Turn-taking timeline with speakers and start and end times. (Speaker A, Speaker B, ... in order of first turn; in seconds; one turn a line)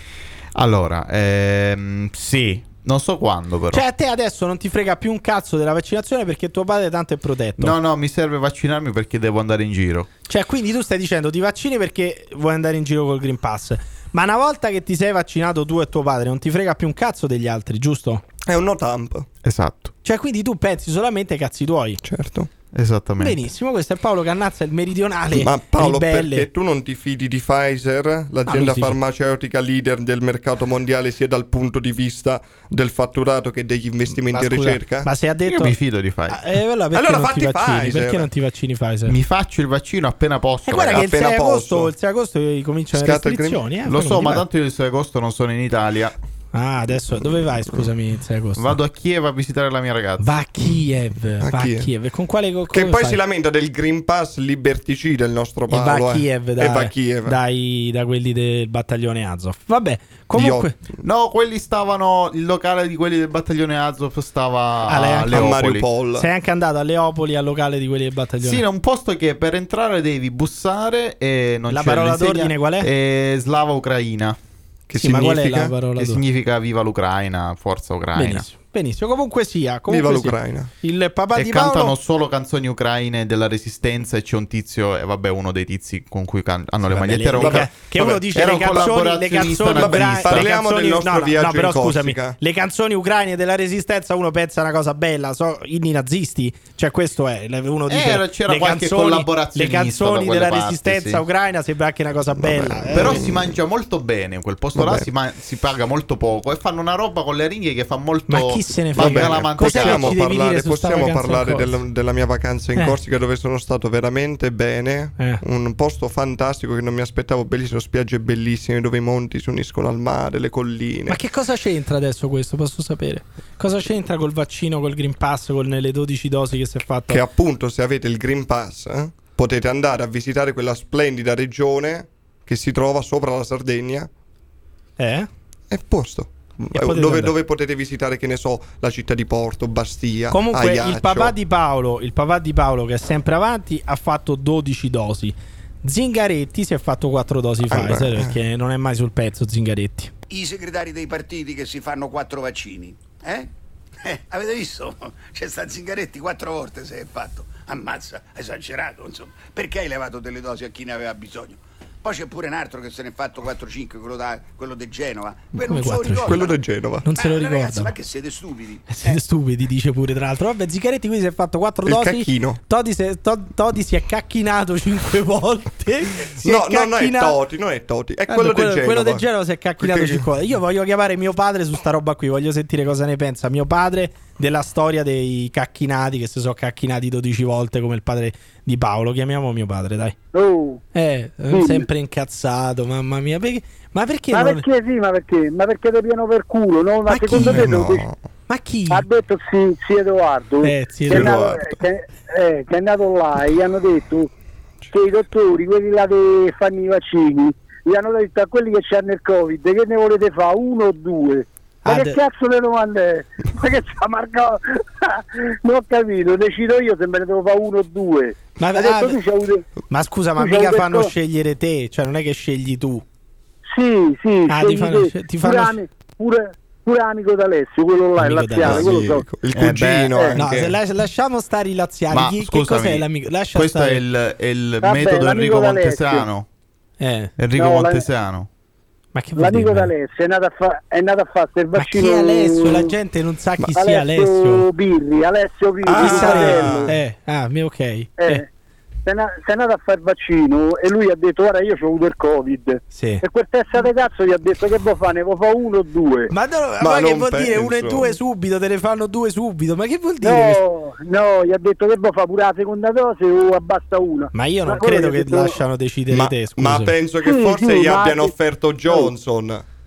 Speaker A: 0.5-3.8
Speaker B: 3.7-7.7
Speaker A: 7.6-10.1
Speaker B: 10.3-18.2
Speaker C: 18.4-19.3
Speaker A: 19.4-19.9
Speaker B: 20.0-22.0
Speaker C: 22.0-22.5
Speaker A: 22.7-23.4
Speaker B: 23.2-26.5
Speaker C: 25.3-35.1
Speaker B: 28.5-28.9
Speaker B: 34.1-35.8
Speaker A: 35.5-36.4
Speaker B: 36.3-39.1
Speaker C: 36.9-38.3
Speaker A: 39.1-41.0
Speaker B: 40.6-44.4
Speaker C: 40.9-41.9
Speaker C: 42.9-43.6
Speaker A: 43.9-46.1
Speaker B: 46.5-48.7
Speaker A: 48.6-50.3
Speaker B: 50.2-53.2
Speaker C: 51.4-51.9
Speaker C: 52.7-57.4
Speaker B: 55.7-60.8
Speaker C: 60.3-60.7
Speaker A: 61.0-65.9
Speaker B: 64.9-65.4
Speaker C: 65.3-66.3
Speaker B: 66.2-68.6
Speaker A: 68.4-74.4
Speaker B: 71.7-72.9
Speaker C: 74.9-75.7
Speaker B: 75.0-76.2
Speaker A: 76.0-78.5
Speaker B: 78.1-81.9
Speaker C: 79.9-80.7
Speaker A: 81.3-90.5
Speaker B: 86.9-103.2
Speaker C: 87.4-88.2
Speaker C: 89.8-92.4
Speaker A: 97.9-101.2
Speaker A: 102.6-110.2
Speaker C: 102.9-103.5
Speaker C: 104.7-105.1
Speaker B: 108.3-111.8
Speaker C: 109.0-121.2
Speaker B: 121.1-127.2
Speaker C: 127.1-134.1
Speaker B: 135.0-135.3
Speaker C: 135.7-141.3
Speaker B: 136.7-137.3
Speaker B: 140.3-150.1
Speaker C: 147.7-148.4
Speaker D: 150.3-153.5
Speaker D: 154.0-166.6
Speaker B: 165.6-166.4
Speaker C: 166.2-167.1
Speaker B: 167.0-167.9
Speaker D: 167.1-169.2
Speaker B: 168.9-177.4
Speaker C: 171.8-172.6
Speaker C: 176.3-179.2
Speaker B: 178.3-190.2
Speaker C: 179.8-180.3
Speaker E: 190.3-190.8
Speaker B: 190.9-194.6
Speaker E: 191.5-191.9
Speaker E: 194.3-198.1
Speaker B: 197.1-197.7
Speaker C: 197.3-198.2
Speaker B: 198.5-199.0
Speaker E: 198.9-204.3
Speaker B: 200.6-201.7
Speaker C: 201.1-201.7
Speaker E: 204.9-219.7
Speaker B: 211.8-212.2
Speaker B: 218.6-219.2
Speaker B: 219.9-223.0
Speaker E: 220.4-221.1
Speaker E: 223.7-229.2
Speaker B: 224.5-225.8
Speaker B: 228.2-228.9
Speaker C: 228.6-230.8
Speaker A: 229.5-230.2
Speaker E: 230.1-230.4
Speaker B: 230.3-234.0
Speaker A: 232.1-236.4
Speaker E: 234.8-236.2
Speaker B: 237.0-237.3
Speaker A: 237.4-238.5
Speaker E: 237.6-238.1
Speaker B: 239.1-239.9
Speaker E: 239.4-242.9
Speaker B: 241.8-244.7
Speaker E: 243.8-247.0
Speaker C: 245.8-246.9
Speaker B: 245.9-248.4
Speaker E: 248.2-248.5
Speaker E: 249.0-256.3
Speaker B: 252.9-253.2
Speaker B: 256.3-260.6
Speaker C: 256.8-258.1
Speaker E: 260.2-265.6
Speaker B: 264.3-267.0
Speaker C: 266.1-269.6
Speaker E: 267.2-268.3